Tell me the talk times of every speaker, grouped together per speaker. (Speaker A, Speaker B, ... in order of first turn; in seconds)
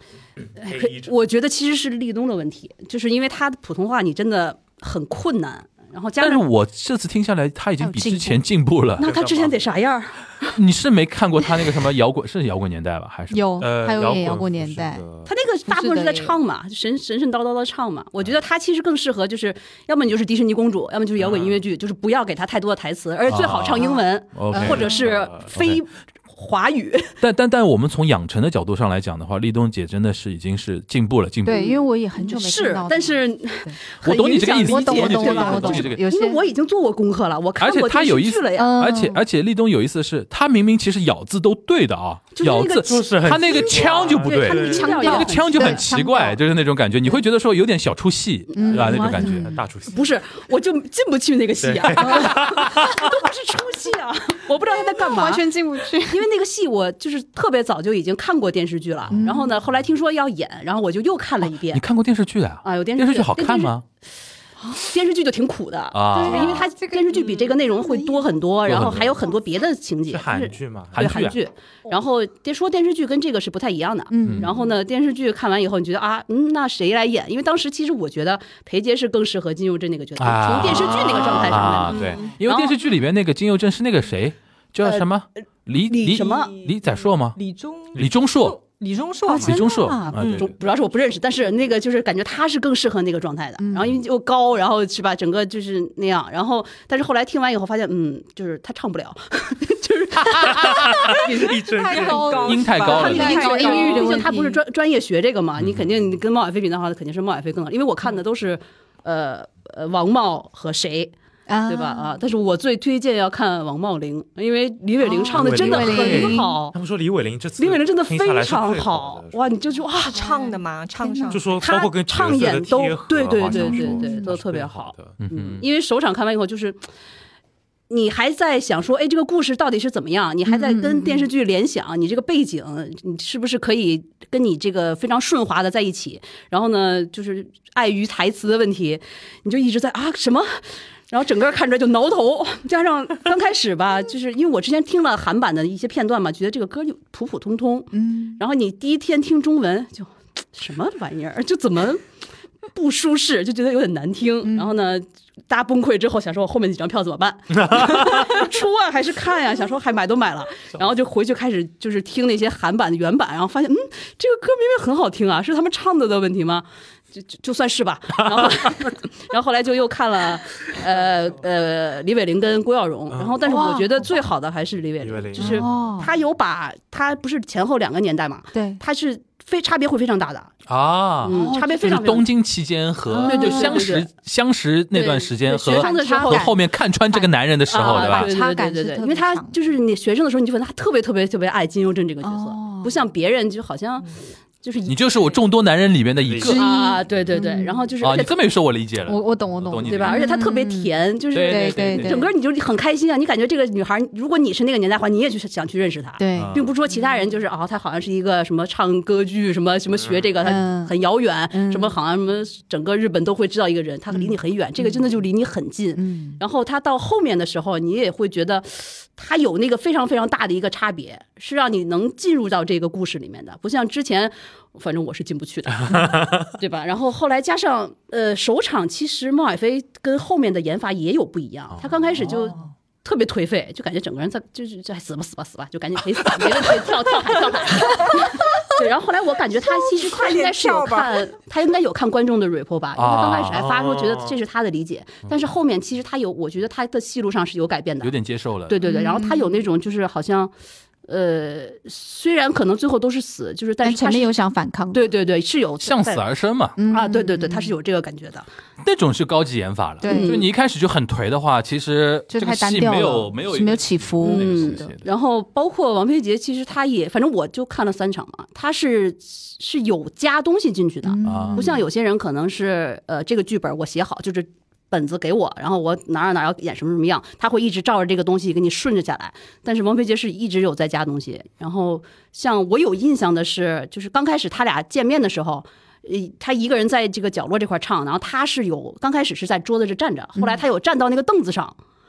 Speaker A: 0.6-6.5, 9.0-10.5, 15.2-27.1, 31.5-38.7, 42.4-45.9, 48.5-55.5, 56.0-61.8, 62.6-63.7, 64.7-82.8, 85.9-86.5, 89.5-111.1, 111.7-116.8, 117.6-120.2, 121.6-126.8, 127.9-152.0, 152.7-180.5, 181.2-182.3, 183.2-184.1, 184.9-186.5, 187.7-195.0, 196.5-198.4, 199.8-248.1, 248.7-250.5, 251.1-254.3, 254.9-256.3, 256.9-258.5, 260.0-260.5, 264.2-291.8
Speaker B: 0.6-1.1, 9.0-9.7, 13.6-15.3, 21.2-21.6, 24.6-25.6, 42.8-45.1, 49.4-50.1, 51.6-53.1, 68.7-69.0, 70.1-71.1, 80.8-81.7, 100.6-102.7, 115.3-119.4, 121.3-125.2, 157.6-158.3, 173.1-173.4, 175.0-175.7, 196.2-196.6, 210.0-210.3, 225.9-226.4, 243.5-244.4
Speaker C: 6.2-9.1, 10.5-13.4, 23.3-24.9, 25.5-25.8, 27.2-31.7, 34.0-36.0, 37.6-49.5, 61.5-63.8, 65.9-66.6, 68.7-69.1, 70.9-71.4, 74.2-74.5, 80.2-87.4, 88.0-88.6, 89.3-90.5, 102.4-103.7, 125.2-125.6, 180.7-188.3, 194.9-196.7, 198.0-200.4, 201.3-202.3, 206.3-206.7, 242.9-243.7, 248.0-248.8, 255.8-256.8, 258.8-265.0, 271.2-271.7
Speaker D: 7.8-8.4, 13.3-15.0, 15.7-16.4, 24.5-25.1, 31.4-33.8, 34.4-36.4, 38.5-39.2, 44.5-46.4, 48.5-49.5, 54.9-56.3, 59.1-59.6, 66.1-68.2, 74.1-74.6, 89.3-90.2, 93.6-93.9, 102.8-104.6, 111.5-112.2, 115.0-116.5, 120.2-121.4, 123.5-124.3, 130.5-131.3, 147.9-148.4, 154.4-154.7, 173.4-174.1, 175.4-176.1, 178.5-178.8, 181.3-181.9, 183.1-183.9, 185.7-189.6, 192.2-193.0, 196.4-197.8, 199.1-200.9, 201.4-202.3, 206.2-207.1, 210.4-210.9, 211.5-211.9, 214.1-214.4, 215.9-216.4, 248.8-249.6, 253.8-255.1, 256.8-257.7, 260.0-260.4, 262.3-264.9, 271.1-271.9
Speaker E: 81.9-82.3, 86.3-90.5, 101.7-104.3, 120.0-121.6, 239.9-241.2